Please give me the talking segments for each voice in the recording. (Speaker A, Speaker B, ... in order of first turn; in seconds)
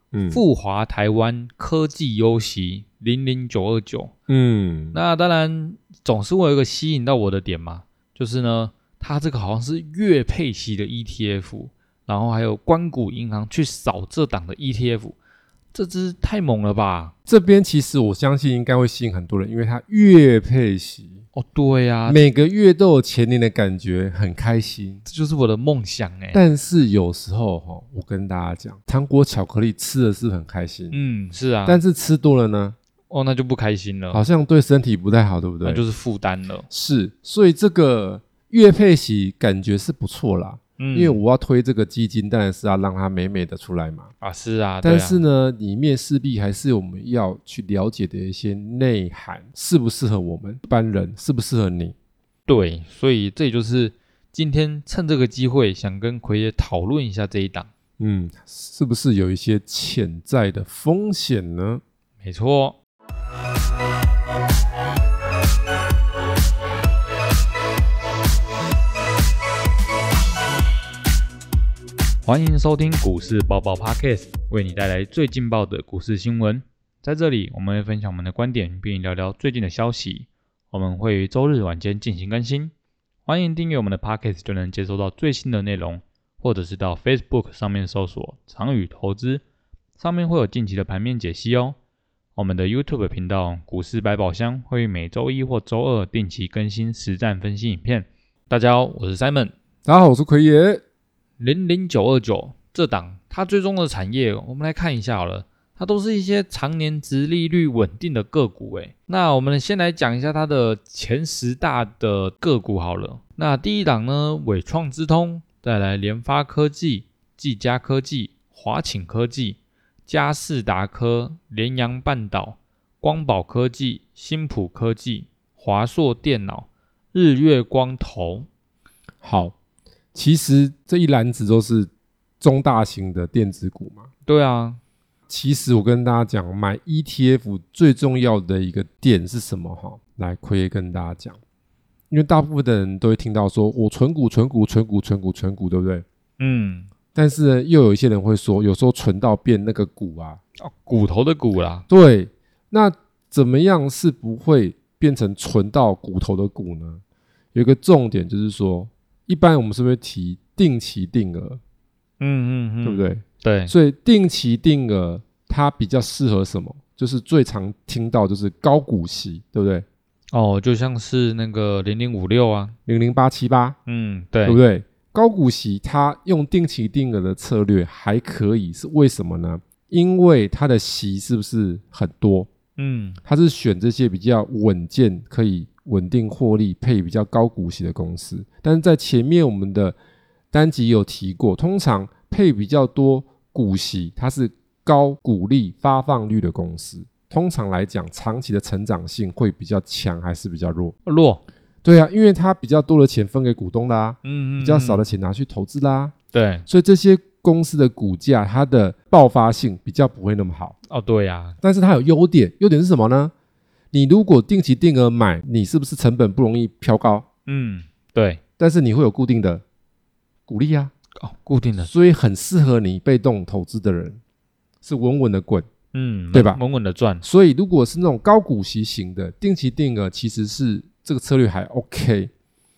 Speaker A: 0.1-0.4, 4.3-5.0, 17.3-21.2, 22.1-25.0, 26.3-30.9, 31.7-32.8, 34.1-35.8, 36.7-44.1, 44.8-52.0, 58.0-61.8, 99.9-100.8, 129.2-129.6, 130.1-131.9, 132.4-134.1, 135.3-141.4, 142.1-146.1, 147.2-150.4, 151.9-157.0, 157.5-161.6, 162.8-169.8, 172.9-173.8, 174.4-182.5, 183.2-190.0, 190.5-200.9, 201.8-206.1, 206.7-210.8, 211.6-213.3, 213.9-217.2, 218.6-219.6, 220.5-220.9, 221.8-224.2, 224.8-225.7, 226.3-226.6, 227.2-232.3
Speaker B: 0.3-4.1, 4.9-15.2, 15.7-17.1, 21.3-22.2, 25.1-26.4, 30.9-31.8, 33.1-34.2, 35.6-36.7, 40.8-41.2, 44.2-45.2, 52.5-57.7, 62.2-62.8, 72.2-82.7, 83.3-89.4, 90.0-91.8, 92.4-99.5, 101.4-128.5, 134.2-134.8, 146.4-146.9, 150.6-151.9, 162.2-163.7, 170.3-172.8, 173.9-174.6, 182.8-183.2, 201.1-201.4, 204.2-205.1, 206.3-206.7, 210.9-211.6, 217.5-218.4, 221.2-221.9, 225.9-227.2